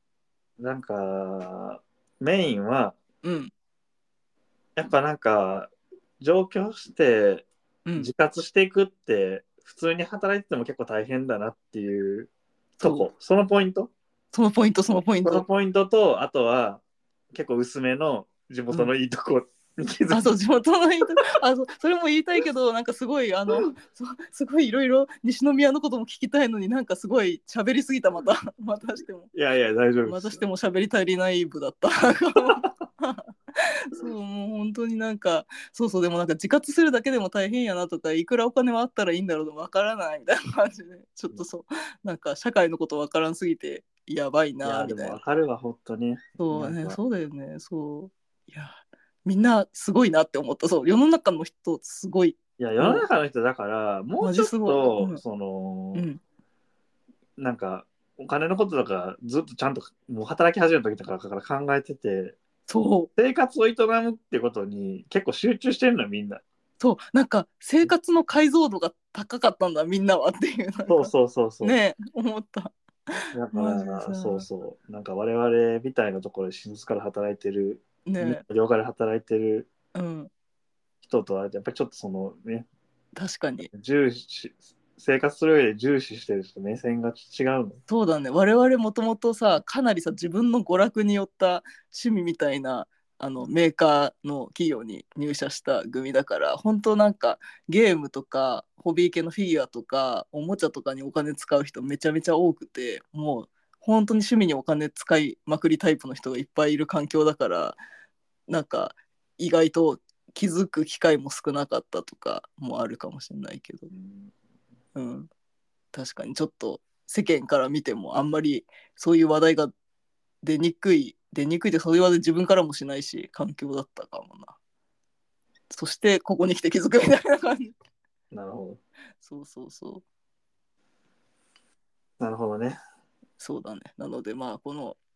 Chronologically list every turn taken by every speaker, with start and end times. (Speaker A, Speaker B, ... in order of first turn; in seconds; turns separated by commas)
Speaker A: 0.6-3.0, Speaker B: 3.2-3.5, Speaker A: 4.8-12.3, Speaker B: 7.9-8.1, Speaker B: 12.8-13.1, Speaker A: 12.8-13.9, Speaker B: 14.3-15.5, Speaker A: 15.2-16.8, Speaker A: 17.3-20.3, Speaker B: 20.1-29.3, Speaker A: 29.3-30.4, Speaker B: 30.1-45.2, Speaker A: 32.4-32.7, Speaker A: 44.6-47.0, Speaker B: 46.4-53.1, Speaker A: 52.6-56.1, Speaker B: 54.2-55.2, Speaker B: 55.9-56.2, Speaker A: 57.4-62.4, Speaker B: 62.7-63.1, Speaker A: 63.2-66.4, Speaker B: 66.8-74.5, Speaker A: 70.9-71.8, Speaker A: 73.3-79.7, Speaker B: 78.1-78.4, Speaker B: 80.0-80.3, Speaker A: 81.0-82.7, Speaker B: 83.2-83.7, Speaker A: 83.7-87.8, Speaker B: 87.9-107.8, Speaker B: 108.5-113.9, Speaker A: 113.9-114.3, Speaker B: 115.0-115.3, Speaker B: 115.9-119.7, Speaker B: 120.4-124.6, Speaker B: 125.7-127.7, Speaker A: 128.3-128.8, Speaker B: 129.2-130.0, Speaker A: 132.2-132.8, Speaker B: 133.4-135.0